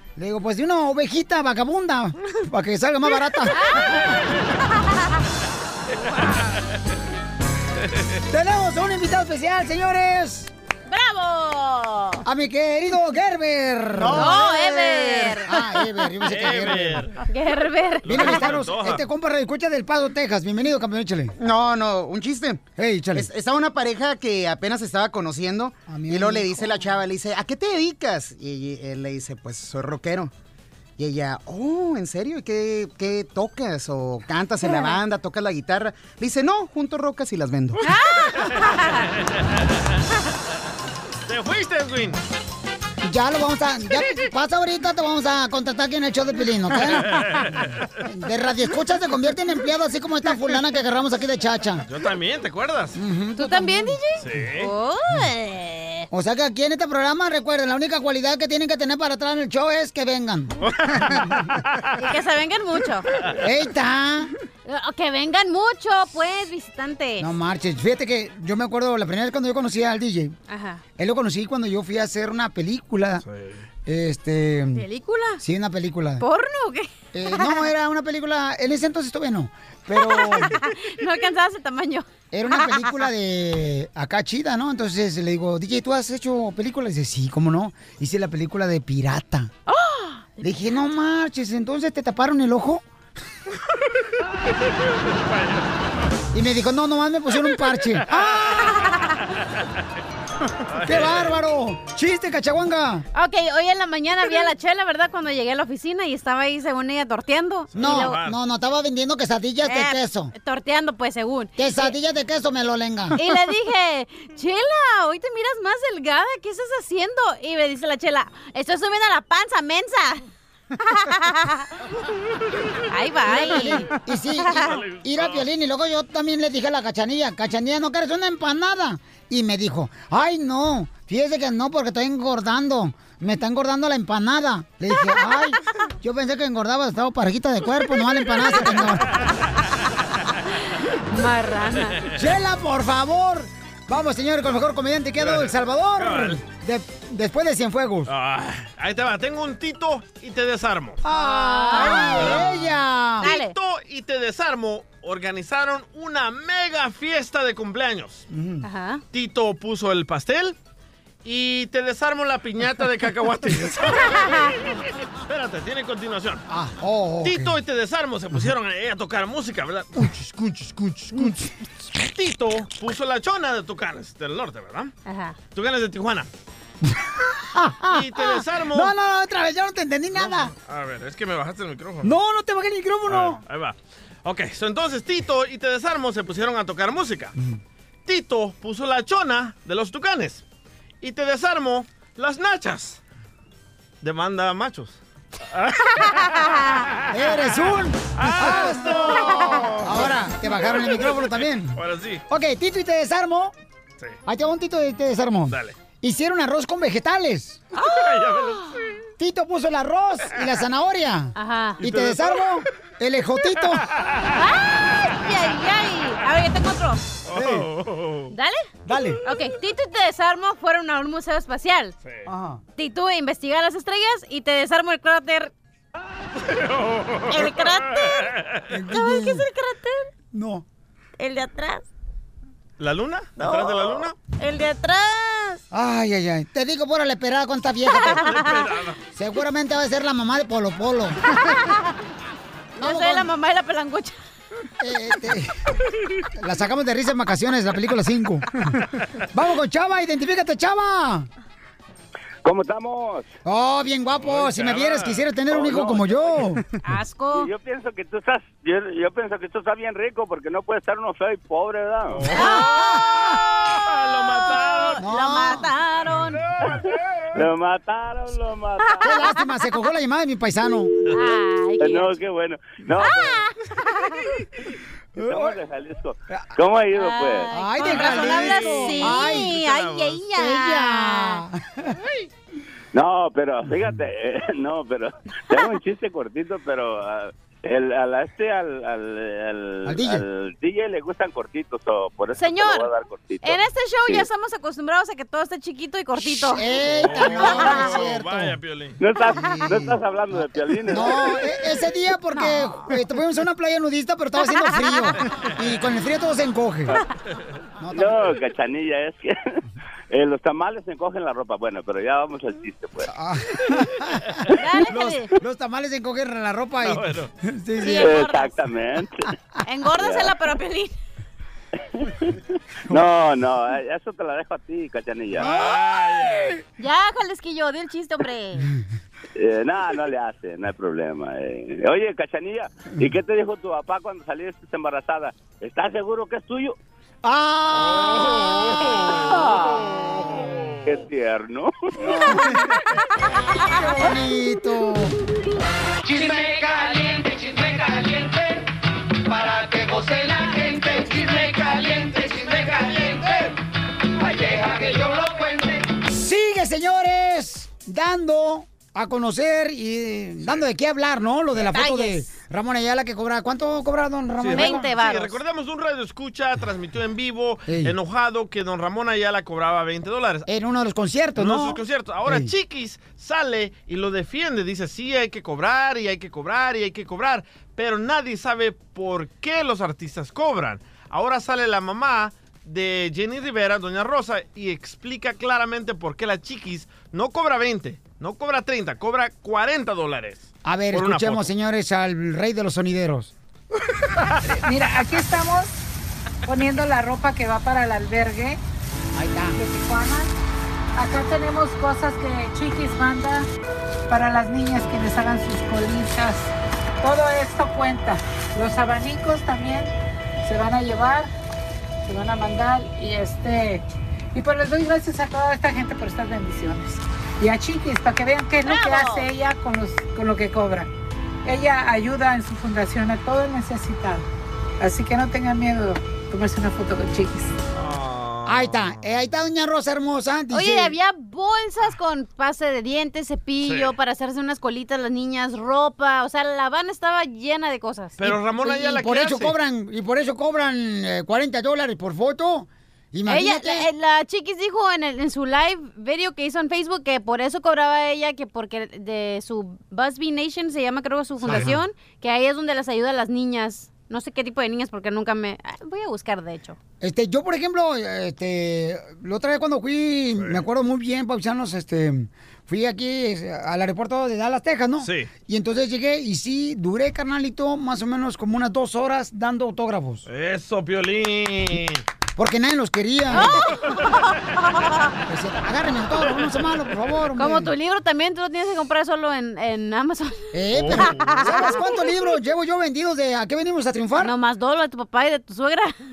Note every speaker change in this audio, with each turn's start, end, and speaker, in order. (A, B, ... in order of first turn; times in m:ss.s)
0:00.2-0:04.1 A
0:03.5-0:04.0 B
0:08.3-0:10.5 A
0:10.9-0:12.2 B
0:12.2-0:17.1 A
0:14.1-0:15.6 B
0:16.2-0:17.2 C
0:17.2-0:18.4 B
0:18.1-0:19.0 C
0:18.1-0:21.4 A
0:21.4-0:30.3 D
0:22.8-0:23.3 A
0:25.9-0:27.0 A
0:31.0-0:37.8 D
0:37.8-0:39.0 B
0:41.3-0:42.2 C
0:43.0-0:47.4 A
0:47.0-0:47.7 C
0:48.0-0:51.8 A
0:51.9-0:53.0 C
0:53.0-0:54.0 A
0:53.4-0:56.1 B
0:54.2-0:54.7 C
0:56.1-1:01.5 A
1:00.6-1:01.2 C
1:02.0-1:03.1 B
1:03.4-1:04.3 A
1:04.7-1:07.3 B
1:07.2-1:10.4 A
1:10.5-1:10.8 B
1:11.0-1:13.2 A
1:13.3-1:13.6 C
1:13.9-1:14.9 A
1:14.7-1:15.4 B
1:15.4-1:16.2 A
1:16.2-1:17.6 B
1:17.1-1:20.6 A
1:20.0-1:22.9 B
1:22.3-1:29.5 A
1:29.7-1:30.3 B
1:30.4-1:32.8 A
1:35.3-1:35.6 C
1:36.3-1:38.4 A
1:38.4-1:39.2 B
1:40.7-1:41.3 C
1:40.8-1:43.0 A
1:43.1-1:48.2 B
1:47.7-1:48.4 C
1:47.8-1:50.3 A
1:49.6-1:52.0 B
1:51.6-1:53.2 A
1:53.2-2:00.2 B
2:00.8-2:01.7 B
2:02.9-2:03.9 B
2:03.3-2:19.1 A
2:04.5-2:05.4 C
2:20.7-2:22.1 B
2:22.1-2:28.1 A
2:25.2-2:26.4 C
2:28.1-2:31.0 C
2:31.0-2:33.3 A
2:31.1-2:32.4 B
2:32.2-2:32.5 C
2:33.2-2:38.3 C
2:33.2-2:33.5 B
2:38.3-2:38.6 A
2:38.6-2:39.0 B
2:39.1-2:40.6 C
2:41.2-2:46.4 C
2:46.5-2:47.5 A
2:47.2-2:51.4 C
2:51.1-2:51.4 A
2:52.0-2:54.9 C
2:55.1-2:55.4 B
2:55.5-2:56.3 C
2:56.8-3:00.5 A
2:57.9-2:58.9 C
3:00.1-3:02.2 C
3:02.0-3:03.4 A
3:03.1-3:07.3 C
3:08.1-3:10.4 C
3:11.0-3:13.0 C
3:14.0-3:15.0 C
3:15.5-3:16.7 C
3:16.1-3:16.7 B
3:17.1-3:23.6 A
3:18.2-3:22.2 C
3:24.3-3:27.6 A
3:27.8-3:28.8 B
3:27.8-3:28.7 C
3:29.2-3:33.8 A
3:31.4-3:31.8 B
3:31.8-3:32.4 C
3:33.9-3:34.3 C
3:34.4-3:37.0 B
3:37.3-3:38.3 C
3:37.3-3:37.7 A
3:38.3-3:38.7 B
3:38.9-3:39.2 A
3:39.2-3:41.9 B
3:42.3-3:42.6 A
3:42.8-3:45.5 B
3:46.5-3:48.6 C
3:47.3-3:48.3 B
3:48.7-3:49.4 A
3:48.9-3:50.1 B
3:50.3-3:50.6 A
3:51.2-3:51.8 B
3:52.8-3:54.2 C
3:53.4-3:53.8 B
3:54.4-3:55.6 B
3:55.7-3:58.3 A
3:58.0-3:58.7 B
3:58.2-3:59.0 C
3:59.2-4:01.3 A
4:01.4-4:02.0 B
4:02.8-4:03.3 A
4:02.8-4:04.2 B
4:04.8-4:05.7 A
4:06.4-4:08.6 A
4:09.3-4:11.3 A
4:12.4-4:13.3 E
4:13.4-4:16.6 A
4:14.2-4:16.5 C
4:16.8-4:17.5 B
4:17.3-4:22.3 E
4:22.2-4:25.0 C
4:22.3-4:23.4 A
4:23.9-4:26.4 B
4:25.0-4:25.7 A
4:26.2-4:26.9 C
4:27.3-4:29.2 E
4:28.9-4:29.8 B
4:29.0-4:30.9 A
4:31.1-4:32.1 B
4:31.8-4:33.4 E
4:33.0-4:34.2 B
4:35.2-4:35.6 A
4:35.2-4:37.5 E
4:36.3-4:36.6 A
4:36.9-4:41.4 B
4:37.5-4:39.6 A
4:37.9-4:40.2 C
4:40.4-4:42.0 A
4:42.9-4:54.3 E
4:49.8-4:50.2 A
4:52.4-4:52.9 B
4:53.4-4:56.7 B
4:56.2-4:58.6 A
4:56.8-4:59.0 C
4:57.2-4:57.9 B
4:59.0-5:01.2 E
4:59.4-5:00.0 A
5:00.9-5:07.0 A
5:02.3-5:02.8 B
5:04.7-5:05.1 B
5:07.8-5:08.3 A
5:07.9-5:09.6 E
5:10.1-5:13.1 E
5:13.1-5:14.3 A
5:14.5-5:15.3 B
5:14.9-5:18.2 A
5:16.8-5:17.3 C
5:17.8-5:18.6 B
5:18.0-5:19.3 E
5:19.6-5:20.9 B
5:20.0-5:20.3 E
5:22.0-5:22.4 E
5:22.9-5:25.5 E
5:25.4-5:26.5 A
5:25.4-5:26.6 C
5:26.8-5:28.7 B
5:29.4-5:36.8 E
5:37.2-5:38.8 A
5:37.8-5:39.4 C
5:39.0-5:40.0 E
5:40.4-5:40.7 C
5:40.8-5:41.7 E
5:42.0-5:42.6 A
5:43.5-5:45.2 A
5:46.5-5:46.8 F
5:50.7-5:51.8 F
5:52.7-5:52.9 F
5:55.0-5:55.5 F
5:56.0-6:04.9 A
6:01.7-6:02.3 B
6:04.4-6:10.5 C
6:04.6-6:05.4 B
6:07.7-6:07.9 A
6:10.5-6:12.5 A
6:11.4-6:31.5 C
6:30.6-6:33.3 A
6:34.6-6:35.7 G
6:36.5-6:38.6 G
6:39.2-6:39.6 A
6:39.6-6:40.3 G
6:41.0-6:43.5 G
6:44.1-6:49.9 G
6:50.4-6:51.3 G
6:52.1-7:00.9 G
6:58.6-6:59.3 B
7:01.4-7:04.3 G
7:04.8-7:07.6 G
7:07.7-7:09.0 C
7:08.5-7:11.0 A
7:10.5-7:18.2 B
7:13.6-7:13.9 C
7:18.2-7:19.6 C
7:18.2-7:23.9 A
7:23.3-7:36.8 B
7:31.5-7:31.7 A
7:37.0-7:50.3 A
7:40.4-7:40.6 C
7:45.0-7:45.3 C
7:50.3-7:52.0 C
7:52.4-7:53.6 A
7:53.3-7:55.1 B
7:55.3-7:57.7 A
7:57.4-8:00.5 B
8:00.5-8:04.3 A
8:00.7-8:01.5 C
8:01.2-8:01.7 B
8:04.2-8:06.0 B